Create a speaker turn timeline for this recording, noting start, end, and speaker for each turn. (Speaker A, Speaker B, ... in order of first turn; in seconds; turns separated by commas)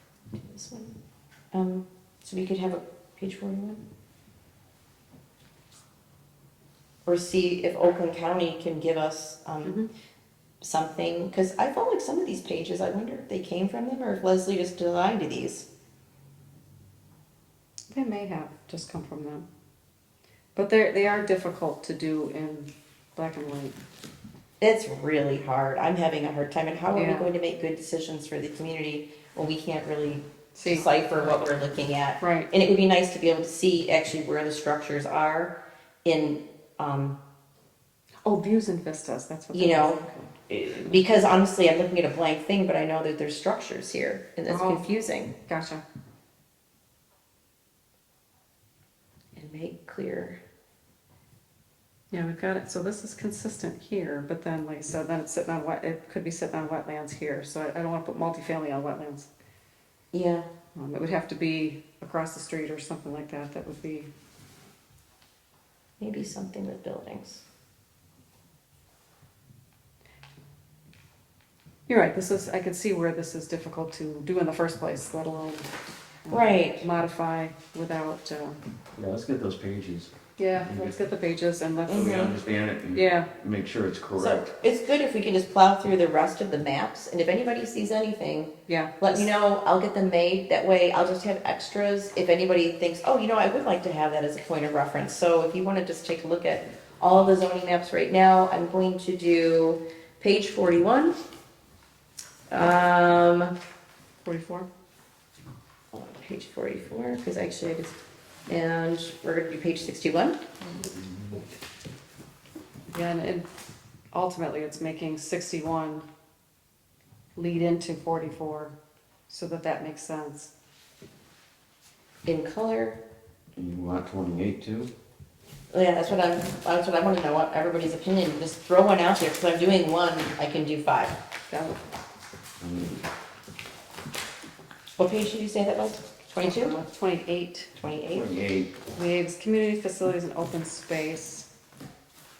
Speaker A: 0.4-1.0, Speaker A: 1.5-3.8, Speaker A: 7.1-9.8, Speaker A: 10.6-15.7, Speaker B: 17.9-19.5, Speaker B: 20.6-23.8, Speaker A: 24.6-37.2, Speaker B: 26.9-27.3, Speaker B: 30.6-30.9, Speaker B: 32.2-32.5, Speaker B: 38.2-40.3, Speaker A: 39.5-45.4, Speaker B: 44.5-44.9, Speaker B: 45.5-45.8, Speaker A: 49.4-50.4, Speaker B: 52.1-59.3, Speaker A: 60.1-60.5, Speaker B: 60.8-64.1, Speaker A: 66.0-67.4, Speaker B: 71.9-75.7, Speaker B: 76.3-78.6, Speaker A: 76.3-76.9, Speaker C: 79.0-81.0, Speaker B: 80.4-82.3, Speaker A: 81.9-82.4, Speaker C: 81.9-84.5, Speaker B: 82.9-83.3, Speaker A: 84.2-101.2, Speaker B: 88.7-89.3, Speaker A: 102.5-103.5, Speaker B: 104.2-104.7, Speaker A: 105.9-108.0, Speaker A: 108.5-110.4, Speaker B: 112.9-113.5, Speaker B: 114.1-116.1, Speaker B: 117.4-118.8, Speaker B: 119.3-120.5, Speaker A: 122.3-123.0, Speaker C: 123.6-124.9, Speaker A: 125.7-131.2, Speaker B: 131.5-131.8, Speaker C: 132.6-133.0, Speaker A: 135.0-136.8, Speaker B: 136.4-137.7, Speaker A: 137.8-138.3, Speaker C: 138.1-138.8, Speaker B: 138.9-141.5